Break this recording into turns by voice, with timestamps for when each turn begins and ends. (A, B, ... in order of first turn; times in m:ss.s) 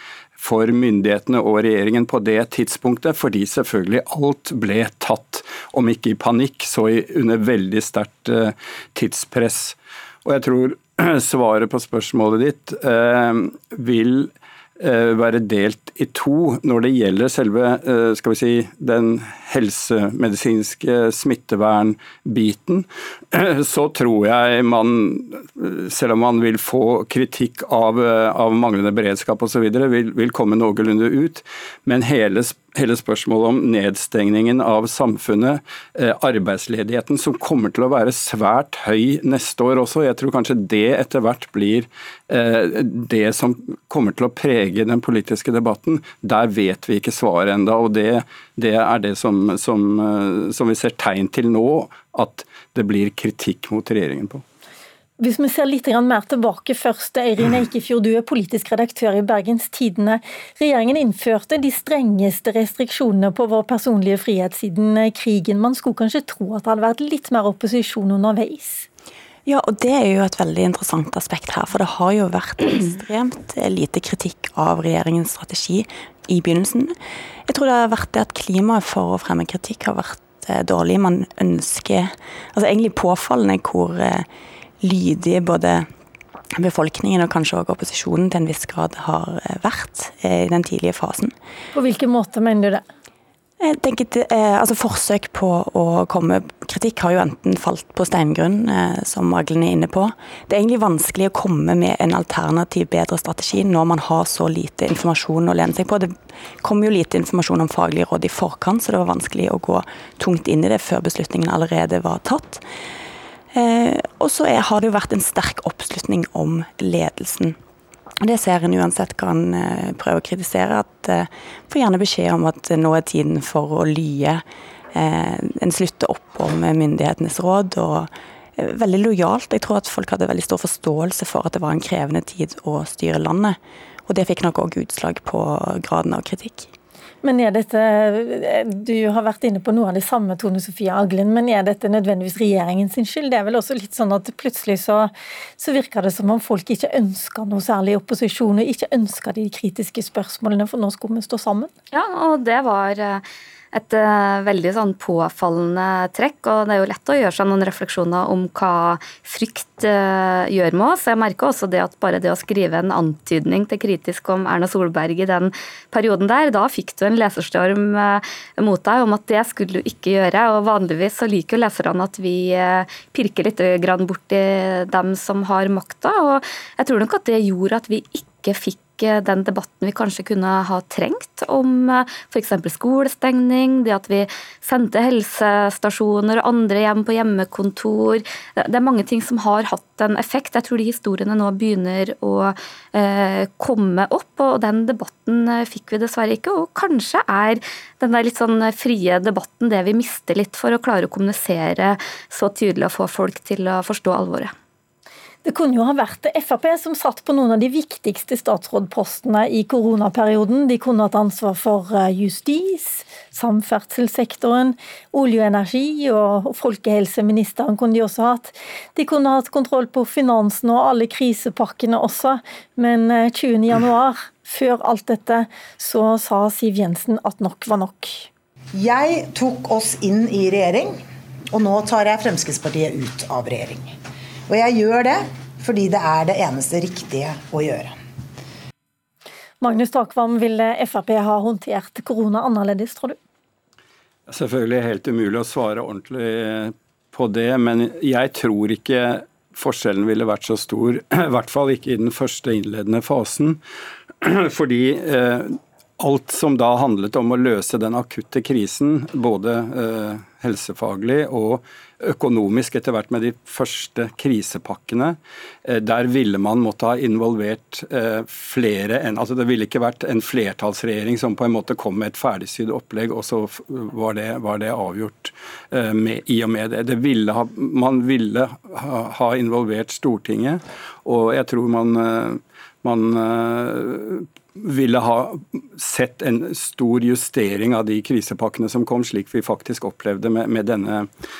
0:00.4-0:54.4 A
0:55.2-1:08.9 B
1:09.4-1:16.9 C
1:17.5-1:24.2 C
1:24.8-1:25.9 C
1:26.6-1:31.3 C
1:31.7-1:32.8 B
1:33.6-1:52.6 C
1:53.6-1:57.6 C
1:58.2-2:04.4 C
2:04.9-2:16.7 C
2:17.2-2:31.7 B
2:31.9-3:24.5 D
3:25.4-3:48.3 B
3:48.7-3:53.9 E
3:54.5-3:57.9 E
3:59.6-4:03.2 B
4:04.3-4:13.6 A
4:14.2-4:51.1 A